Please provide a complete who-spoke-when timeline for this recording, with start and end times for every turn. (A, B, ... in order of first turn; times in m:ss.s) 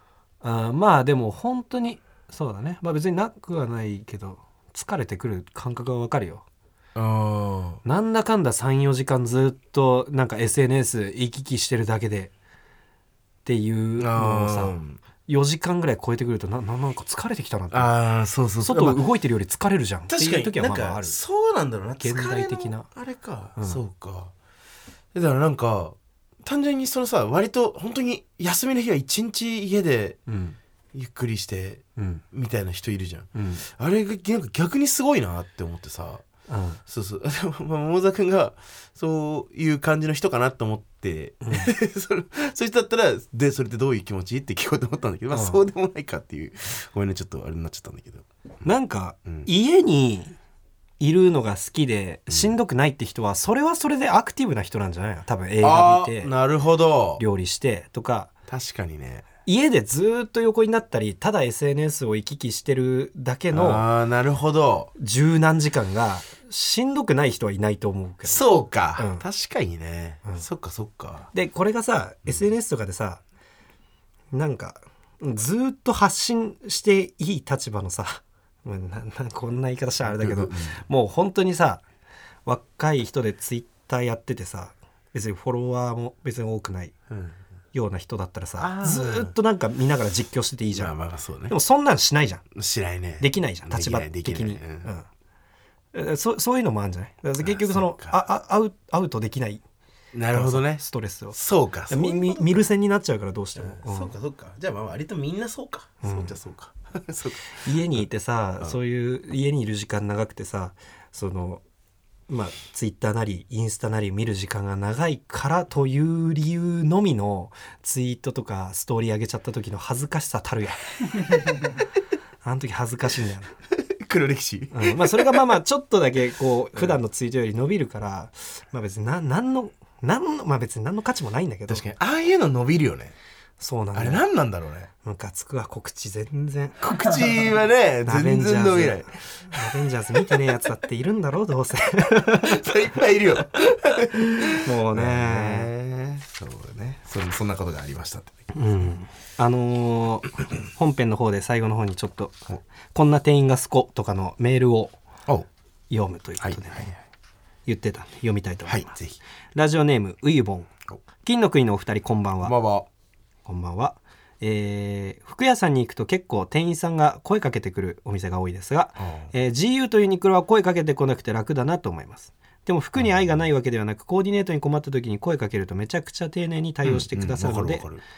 0:00.4-0:06.4 A
0:07.0-0:07.8 B
0:07.8-0:12.3 A
0:13.4-0:17.9 A
0:14.0-0:15.0 B
0:17.7-0:19.0 B
0:18.6-0:21.2 A
0:20.1-0:24.3 B
0:22.0-0:22.9 A
0:25.1-0:30.2 B
0:30.3-0:30.6 A
0:30.9-0:36.2 B
0:32.0-0:32.2 A
0:33.4-0:33.6 A
0:36.5-0:36.8 A
0:36.9-0:48.2 B
0:41.4-0:41.7 A
0:45.3-0:45.6 A
0:48.6-0:50.4 A
0:51.0-0:56.3 A
0:52.3-0:52.6 B
0:55.6-0:57.2 B
0:57.2-0:58.3 A
0:58.5-0:59.2 B
0:59.4-1:03.9 A
1:03.5-1:04.9 B
1:05.0-1:09.3 A
1:08.2-1:11.3 B
1:11.3-1:13.2 A
1:14.3-1:21.8 A
1:20.1-1:20.8 B
1:22.4-1:27.0 A
1:27.7-1:32.4 A
1:28.6-1:29.3 B
1:30.7-1:31.6 B
1:32.6-1:34.9 B
1:33.2-1:35.1 A
1:35.9-1:39.6 A
1:37.4-1:38.2 B
1:40.1-1:42.7 B
1:40.3-1:44.1 A
1:43.6-1:48.1 B
1:46.0-1:46.4 A
1:47.6-1:51.6 A
1:52.3-2:01.8 A
2:02.4-2:03.5 A
2:03.8-2:05.6 B
2:04.7-2:11.9 A
2:06.8-2:07.0 B
2:11.7-2:13.2 B
2:13.6-2:14.3 A
2:13.9-2:14.9 B
2:15.0-2:16.8 A
2:16.8-2:20.5 B
2:18.0-2:23.0 A
2:22.3-2:28.5 B
2:24.6-2:25.7 A
2:28.5-2:35.0 A
2:35.9-2:37.0 A
2:36.4-2:36.9 B
2:37.7-2:38.9 A
2:38.7-2:39.2 B
2:39.6-2:40.7 A
2:41.2-2:42.6 A
2:42.4-2:42.9 B
2:43.4-2:57.9 A
2:49.0-2:49.3 B
2:56.8-2:58.0 B